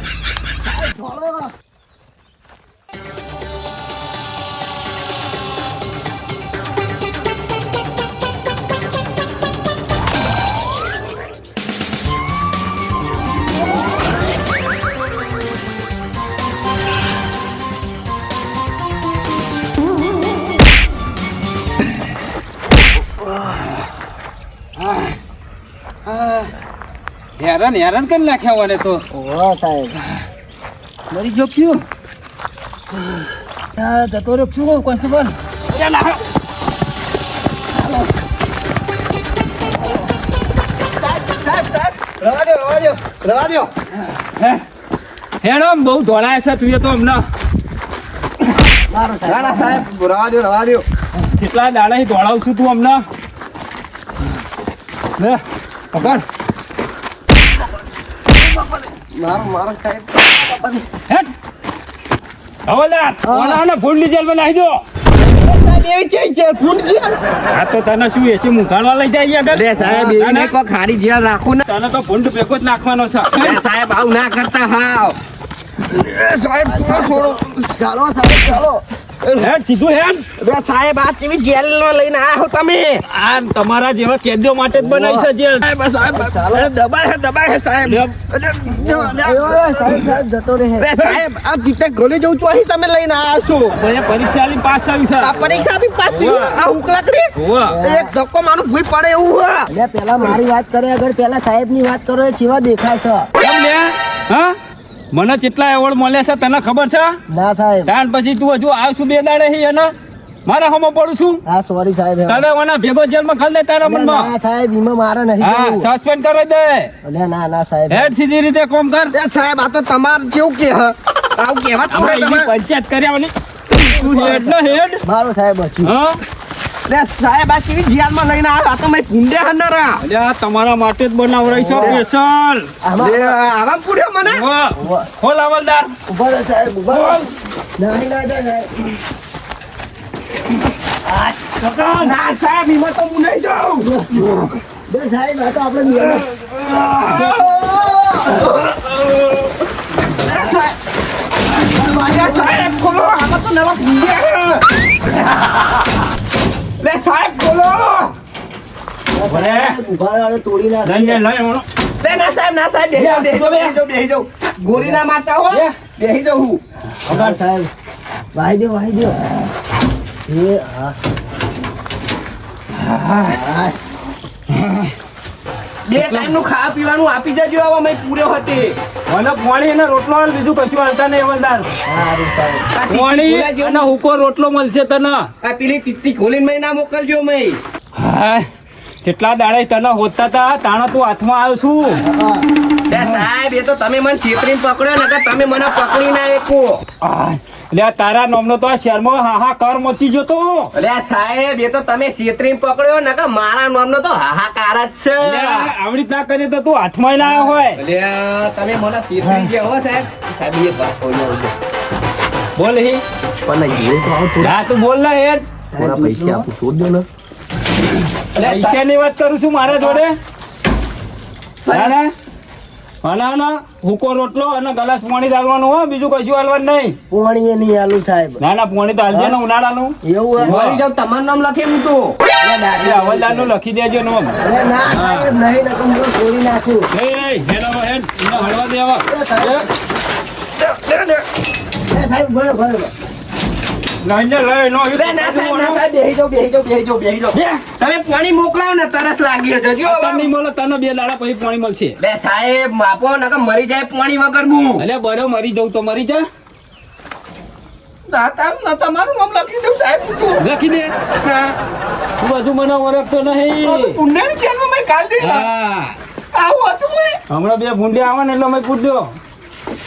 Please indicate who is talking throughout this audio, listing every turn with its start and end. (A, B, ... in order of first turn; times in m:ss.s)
0:00.6-0:01.5 A
0:24.8-0:25.2 B
0:26.1-0:26.5 B
0:27.4-0:29.0 B
0:29.1-0:30.0 A
0:31.1-0:31.8 B
0:33.8-0:36.2 B
0:41.0-0:43.7 C
0:44.1-0:44.6 B
0:45.4-0:47.3 B
0:48.9-0:49.8 A
0:49.3-0:50.8 C
0:51.3-0:53.0 B
0:55.2-0:56.2 B
0:59.2-1:00.8 A
1:02.7-1:04.8 B
1:03.2-1:03.6 A
1:05.4-1:07.2 A
1:07.5-1:10.6 B
1:09.5-1:11.6 C
1:09.8-1:10.2 A
1:11.7-1:13.6 B
1:13.4-1:15.2 C
1:15.8-1:17.4 C
1:16.7-1:18.8 A
1:19.4-1:20.3 B
1:20.4-1:23.0 C
1:23.1-1:26.0 B
1:24.8-1:25.3 A
1:25.8-1:30.2 C
1:26.0-1:26.7 A
1:27.8-1:28.1 B
1:28.8-1:30.9 A
1:30.8-1:33.8 C
1:33.8-1:35.4 B
1:35.2-1:39.7 C
1:36.1-1:36.6 B
1:37.4-1:37.8 B
1:37.7-1:38.1 A
1:39.7-1:43.3 A
1:43.4-1:44.6 B
1:45.1-1:47.2 B
1:47.3-1:47.9 A
1:47.9-1:49.9 B
1:50.5-1:51.4 B
1:51.5-1:52.4 A
1:52.3-1:54.3 B
1:53.8-1:55.9 A
1:55.4-1:56.9 B
1:57.0-1:58.1 A
1:57.9-1:59.1 B
1:59.1-2:02.5 C
2:01.9-2:05.0 B
2:03.9-2:04.4 C
2:03.9-2:05.9 A
2:05.8-2:06.2 B
2:06.9-2:10.0 C
2:10.0-2:12.7 B
2:11.5-2:12.0 A
2:11.7-2:12.0 C
2:12.8-2:13.4 A
2:13.0-2:14.4 C
2:14.2-2:15.9 B
2:14.8-2:15.1 A
2:16.1-2:17.2 A
2:16.9-2:17.3 B
2:17.8-2:18.7 A
2:21.1-2:21.4 A
2:21.5-2:22.2 B
2:22.0-2:24.5 C
2:23.8-2:26.3 A
2:26.6-2:27.3 B
2:27.1-2:28.4 A
2:30.2-2:30.7 C
2:30.2-2:30.6 A
2:31.7-2:32.8 A
2:32.0-2:34.6 C
2:36.8-2:38.1 C
2:39.1-2:41.2 A
2:39.3-2:39.8 B
2:40.8-2:41.6 B
2:42.0-2:46.6 C
2:42.9-2:43.8 B
2:47.1-2:47.7 A
2:47.1-2:47.4 B
2:48.3-2:49.2 A
2:50.3-2:51.0 A
2:52.7-2:53.3 B
2:53.2-2:53.8 A
2:54.5-2:54.9 B
2:55.9-2:58.8 C
2:56.0-2:56.4 A
2:59.1-3:01.7 B
3:01.9-3:02.7 A
3:02.7-3:03.9 C
3:02.9-3:05.3 B
3:05.4-3:07.6 C
3:08.0-3:08.5 B
3:09.0-3:12.0 B
3:12.0-3:12.5 A
3:12.9-3:16.8 C
3:13.0-3:13.2 B
3:17.0-3:20.7 B
3:20.8-3:25.7 C
3:25.2-3:27.8 B
3:27.2-3:31.5 C
3:29.2-3:29.5 B
3:32.6-3:33.0 B
3:33.5-3:34.6 C
3:34.4-3:35.4 B
3:35.7-3:36.5 A
3:35.8-3:37.1 C
3:38.4-3:38.8 C
3:38.4-3:40.2 B
3:39.8-3:40.0 A
3:41.7-3:42.0 C
3:41.7-3:42.1 B
3:43.0-3:47.0 B
3:47.1-3:48.4 A
3:48.4-3:50.8 B
3:50.0-3:50.6 A
3:50.4-3:52.2 C
3:52.4-3:53.5 A
3:52.8-3:54.4 B
3:54.4-3:56.9 A
3:54.9-3:55.3 B
3:56.9-3:59.6 B
3:59.1-3:59.7 A
4:01.9-4:02.9 A
4:04.0-4:05.8 B
4:04.9-4:10.3 C
4:07.3-4:07.6 B
4:09.8-4:12.0 B
4:12.0-4:14.8 C
4:14.8-4:16.2 B
4:18.1-4:20.4 C
4:20.4-4:20.9 B
4:21.1-4:21.6 C
4:22.2-4:24.0 B
4:23.6-4:25.5 C
4:25.2-4:26.0 B
4:26.3-4:27.2 C
4:27.3-4:29.2 B